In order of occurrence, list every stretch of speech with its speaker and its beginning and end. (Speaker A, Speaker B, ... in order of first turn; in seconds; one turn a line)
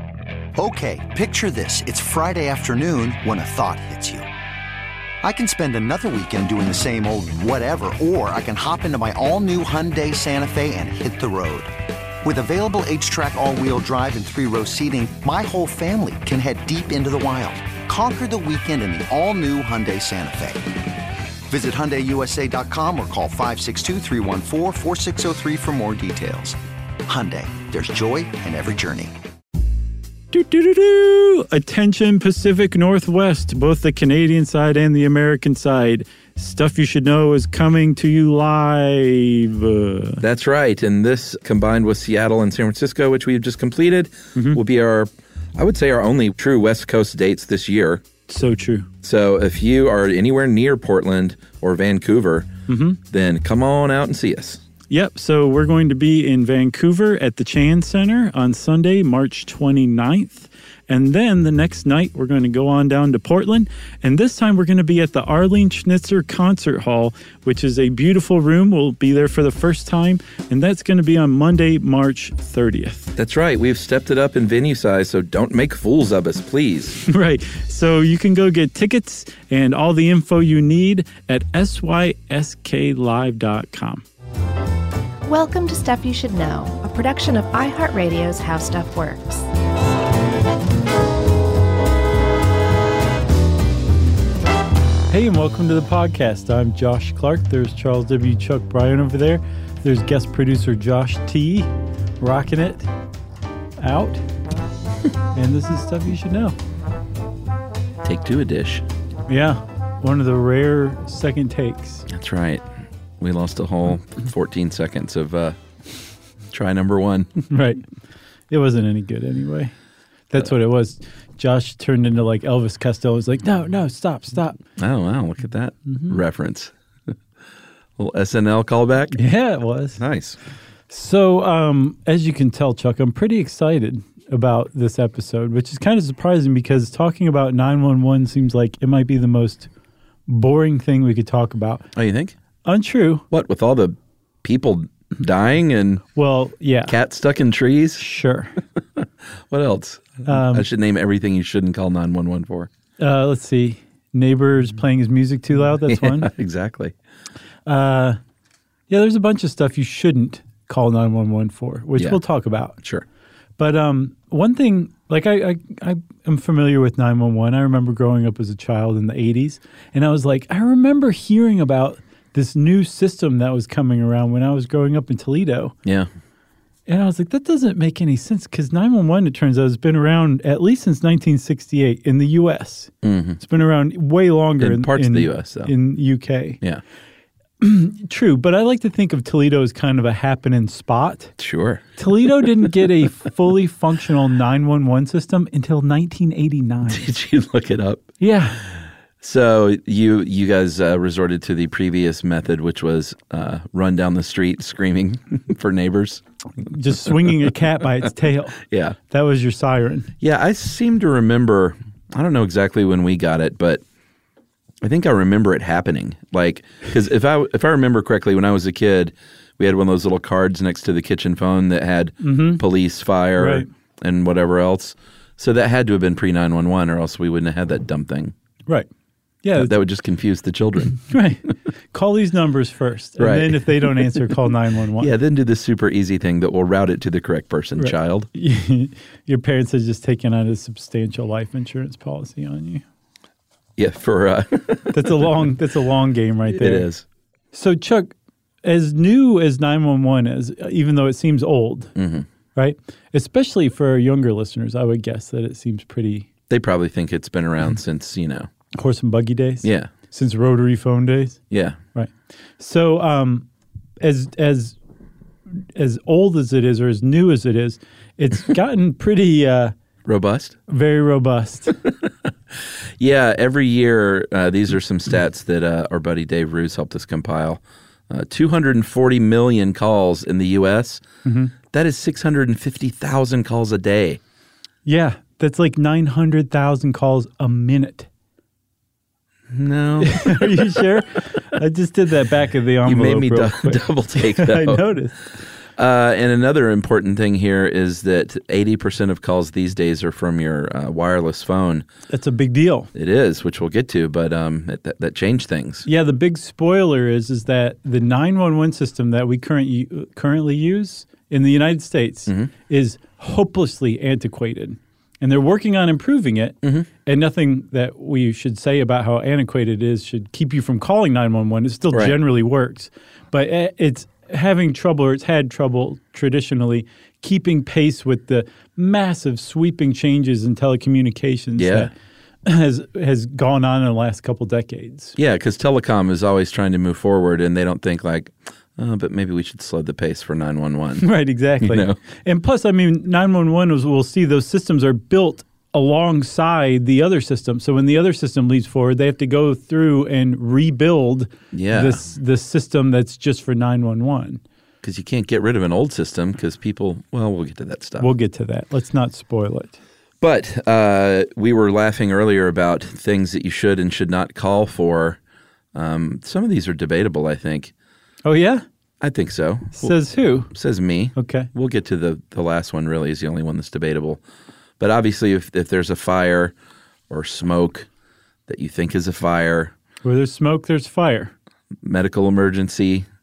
Speaker A: 0.6-4.3
Speaker A: 5.2-20.7
Speaker A: 21.5-29.1
Speaker B: 30.3-40.2
Speaker C: 40.2-48.0
Speaker B: 44.4-44.6
Speaker B: 48.3-48.9
Speaker C: 49.0-52.5
Speaker B: 52.7-53.0
Speaker C: 53.1-54.6
Speaker B: 54.9-73.1
Speaker C: 73.2-77.0
Speaker B: 77.0-84.0
Speaker D: 85.3-89.5
Speaker B: 95.1-102.9
Speaker B: 103.8-104.2
Speaker B: 105.3-106.6
Speaker C: 108.0-108.8
Speaker B: 109.3-112.1
Speaker C: 112.1-112.6
Speaker C: 113.2-115.6
Speaker C: 116.5-117.3
Speaker B: 117.5-117.8
Speaker B: 118.5-119.7
Speaker B: 120.3-124.6
Speaker C: 124.8-126.7
Speaker B: 125.9-126.2
Speaker C: 128.0-129.2
Speaker B: 129.1-130.0
Speaker C: 130.0-130.4
Speaker B: 130.9-139.7
Speaker B: 140.3-141.9
Speaker C: 141.9-142.3
Speaker B: 142.7-143.3
Speaker C: 143.3-146.1
Speaker B: 146.2-146.9
Speaker C: 146.9-148.0
Speaker B: 148.0-148.6
Speaker C: 149.0-152.7
Speaker B: 150.3-150.7
Speaker B: 153.0-156.3
Speaker C: 155.9-156.9
Speaker B: 157.7-158.2
Speaker B: 158.9-162.8
Speaker B: 163.6-175.7
Speaker B: 176.9-186.6
Speaker C: 183.0-183.4
Speaker C: 184.6-185.7
Speaker B: 187.6-191.4
Speaker C: 191.4-191.8
Speaker B: 192.0-197.1
Speaker C: 196.9-198.2
Speaker B: 198.2-198.6
Speaker C: 199.2-206.2
Speaker B: 206.6-208.6
Speaker C: 208.6-209.0
Speaker B: 209.1-210.1
Speaker C: 210.2-213.8
Speaker C: 214.8-228.3
Speaker B: 222.2-222.6
Speaker B: 223.4-223.7
Speaker B: 229.4-229.7
Speaker C: 229.6-231.0
Speaker B: 231.1-235.1
Speaker C: 233.2-234.2
Speaker C: 235.0-238.3
Speaker B: 237.8-242.8
Speaker C: 243.8-245.1
Speaker B: 244.9-246.9
Speaker C: 246.5-247.0
Speaker B: 247.5-251.9
Speaker C: 252.0-252.3
Speaker B: 252.6-256.3
Speaker C: 256.5-258.5
Speaker B: 258.7-261.4
Speaker C: 259.6-259.9
Speaker C: 261.5-261.8
Speaker B: 261.9-263.5
Speaker B: 264.0-264.8
Speaker B: 265.5-269.7
Speaker C: 270.1-270.6
Speaker B: 270.7-271.8
Speaker C: 273.0-281.0
Speaker B: 281.2-281.5
Speaker C: 281.7-284.2
Speaker B: 284.9-288.1
Speaker C: 289.5-291.0
Speaker B: 290.0-295.3
Speaker C: 292.9-294.9
Speaker C: 295.8-301.9
Speaker B: 302.1-302.9
Speaker C: 302.9-305.9
Speaker B: 305.9-331.9
Speaker C: 321.9-322.2
Speaker C: 331.6-331.9
Speaker B: 332.5-335.1
Speaker C: 335.2-341.1
Speaker B: 341.0-354.4
Speaker C: 341.6-342.0
Speaker C: 351.5-352.0
Speaker C: 354.8-358.1
Speaker B: 358.0-359.8
Speaker C: 360.2-365.2
Speaker C: 365.7-367.7
Speaker B: 368.2-368.6
Speaker C: 369.0-369.9
Speaker B: 369.8-370.5
Speaker C: 370.5-374.2
Speaker B: 371.1-371.5
Speaker C: 374.8-376.5
Speaker C: 377.1-377.9
Speaker C: 378.5-379.7
Speaker B: 380.0-381.3
Speaker C: 381.8-383.1